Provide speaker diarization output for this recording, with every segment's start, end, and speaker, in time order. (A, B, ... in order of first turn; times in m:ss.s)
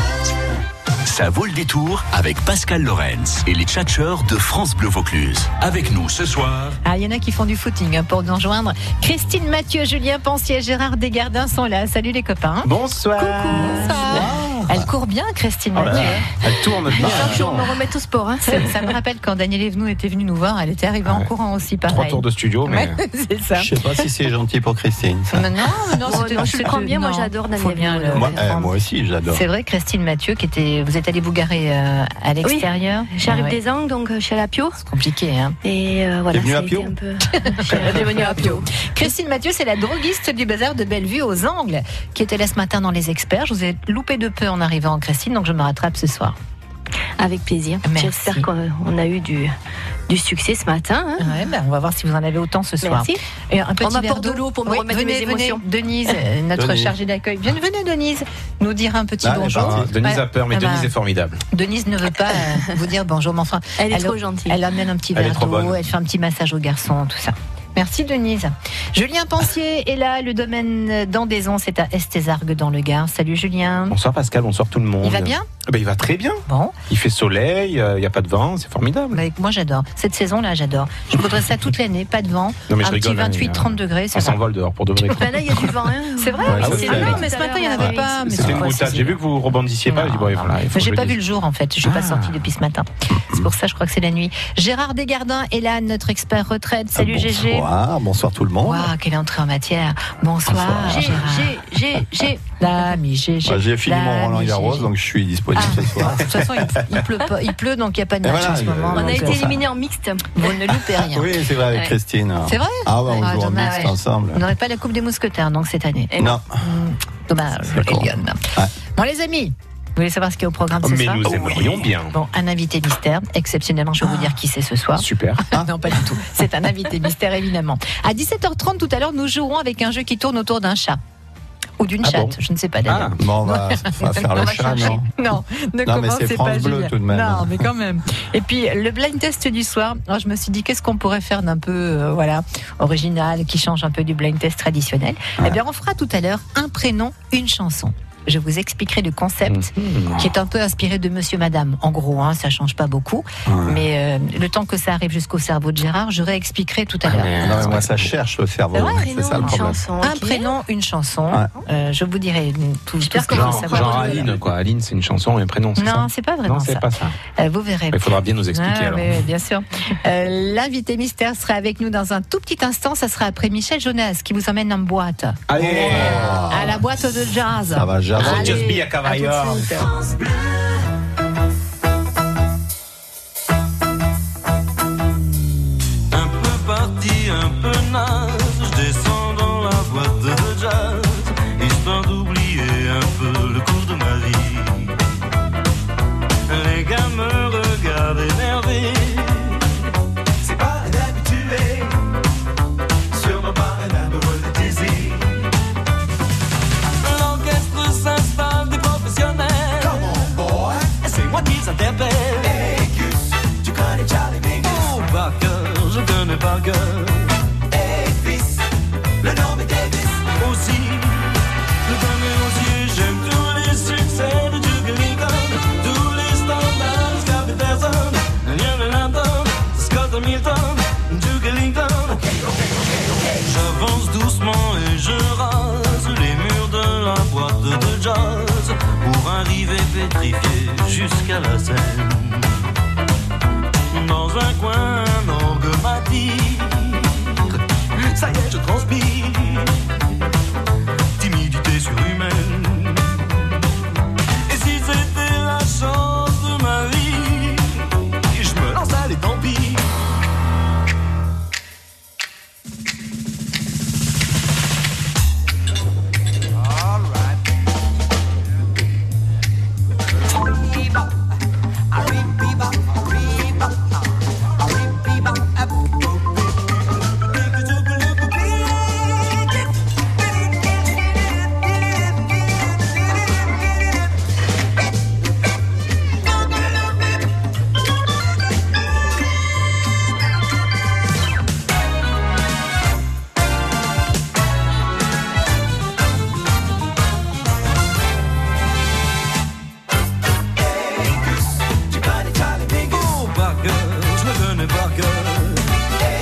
0:01.0-0:06.2 A
0:06.8-0:16.2 B
0:12.6-0:14.1 C
0:13.6-0:14.9 D
0:15.7-0:17.5 C
0:16.4-0:17.7 D
0:16.9-0:18.9 E
0:18.4-0:23.7 B
0:21.9-0:23.0 C
0:23.6-0:25.5 D
0:25.3-0:28.7 B
0:26.0-0:28.5 E
0:28.1-0:29.4 D
0:29.3-0:33.6 B
0:32.4-0:34.8 E
0:34.8-0:35.6 B
0:35.6-0:38.7 E
0:36.3-0:36.9 D
0:37.5-0:46.4 B
0:47.2-0:49.6 E
0:47.8-0:48.5 B
0:50.1-0:51.4 E
0:51.2-1:00.9 B
0:52.8-0:53.2 E
0:53.8-0:55.6 E
0:56.6-0:57.0 D
0:59.2-0:59.9 D
0:59.5-1:01.4 C
1:01.5-1:14.0 B
1:03.8-1:04.6 E
1:05.2-1:05.8 C
1:13.9-1:19.2 C
1:15.0-1:15.5 B
1:16.5-1:16.8 B
1:19.1-1:24.4 B
1:22.7-1:25.2 C
1:25.1-1:28.6 E
1:26.2-1:29.2 B
1:26.5-1:27.2 D
1:26.7-1:27.2 C
1:28.3-1:31.2 C
1:29.9-1:37.7 B
1:31.8-1:32.5 C
1:33.1-1:33.5 D
1:37.0-1:38.9 D
1:38.6-1:41.6 B
1:40.5-1:41.2 D
1:40.8-1:42.6 E
1:42.6-1:44.9 B
1:43.4-1:46.6 D
1:45.6-1:49.6 B
1:48.2-1:49.5 D
1:48.9-1:50.6 E
1:50.4-1:51.3 B
1:50.9-1:54.4 D
1:52.5-2:01.6 B
1:56.1-1:56.4 E
1:56.2-1:56.6 D
1:57.7-1:58.7 D
2:00.8-2:02.1 C
2:01.3-2:01.8 D
2:02.1-2:11.0 B
2:05.0-2:05.4 C
2:11.8-2:37.7 B
2:12.0-2:12.4 C
2:12.9-2:13.2 C
2:13.2-2:15.1 D
2:15.8-2:17.7 D
2:29.5-2:30.3 C
2:33.5-2:33.8 D
2:37.1-2:38.1 C
2:37.4-2:39.8 D
2:38.7-2:44.4 B
2:38.8-2:40.5 E
2:43.1-2:47.2 C
2:43.2-2:44.3 E
2:45.8-2:59.9 B
2:47.9-2:49.2 C
2:55.5-2:56.4 C
2:55.6-2:56.8 D
2:57.6-2:58.7 D
2:58.2-2:59.9 C
3:06.1-3:15.0 F
3:16.5-3:19.7 F
3:20.6-3:21.9 F
3:23.1-3:25.1 F
3:27.0-3:30.5 F
3:31.0-3:32.8 F
3:33.8-3:37.4 F
3:39.2-3:52.2 F
3:53.4-4:02.6 F
4:03.9-4:09.7 F
4:11.2-4:13.5 F
4:14.5-4:19.9 F
5:02.6-5:05.7 F